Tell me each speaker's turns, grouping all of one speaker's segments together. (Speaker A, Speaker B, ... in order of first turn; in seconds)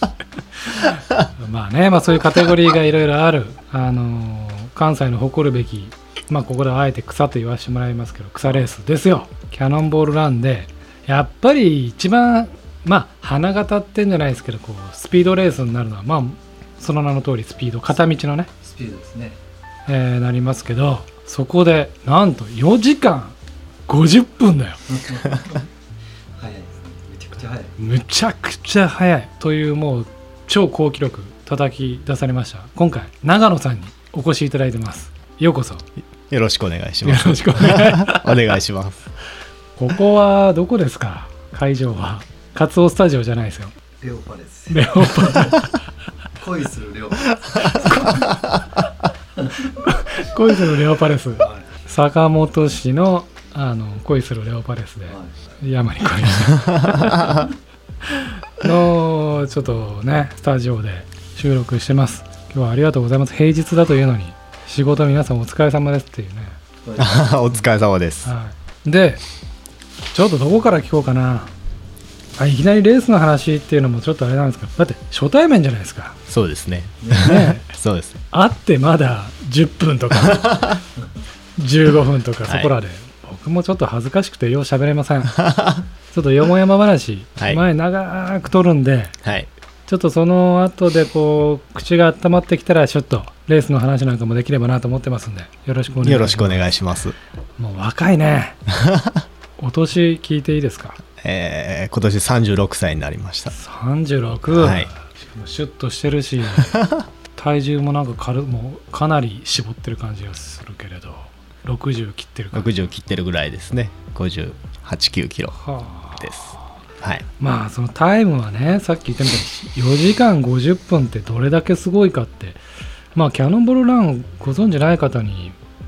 Speaker A: 0.7-18.5, 19.9-23.3, 23.9-24.8, 27.8-35.8, 37.0-38.4, 39.8-43.7, 44.7-45.7, 47.8-48.1, 49.8-57.3, 58.1-66.6, 68.2-69.2, 70.1-71.5, 72.4-76.2, 77.1-77.7, 78.3-80.8, 81.6-85.4, 86.1-89.1, 89.9-96.7, 97.6-98.6, 99.6-101.0, 103.5-106.8, 107.3-112.7, 115.6-116.6, 117.4-122.6, 123.1-125.5
Speaker B: 18.6-19.4, 24.9-25.7, 26.4-27.8, 44.0-45.7, 46.4-48.4, 51.4-51.7, 55.1-55.3, 66.8-67.5, 77.0-77.3
Speaker C: 36.3-39.0, 56.7-57.4, 67.0-68.3, 76.3-78.2, 80.1-80.8, 82.5-82.7, 85.3-85.8, 87.4-87.6, 89.2-89.5, 95.9-97.1, 98.7-99.2, 101.2-103.5, 104.5-104.9, 106.6-107.0, 112.5-115.6, 116.2-117.2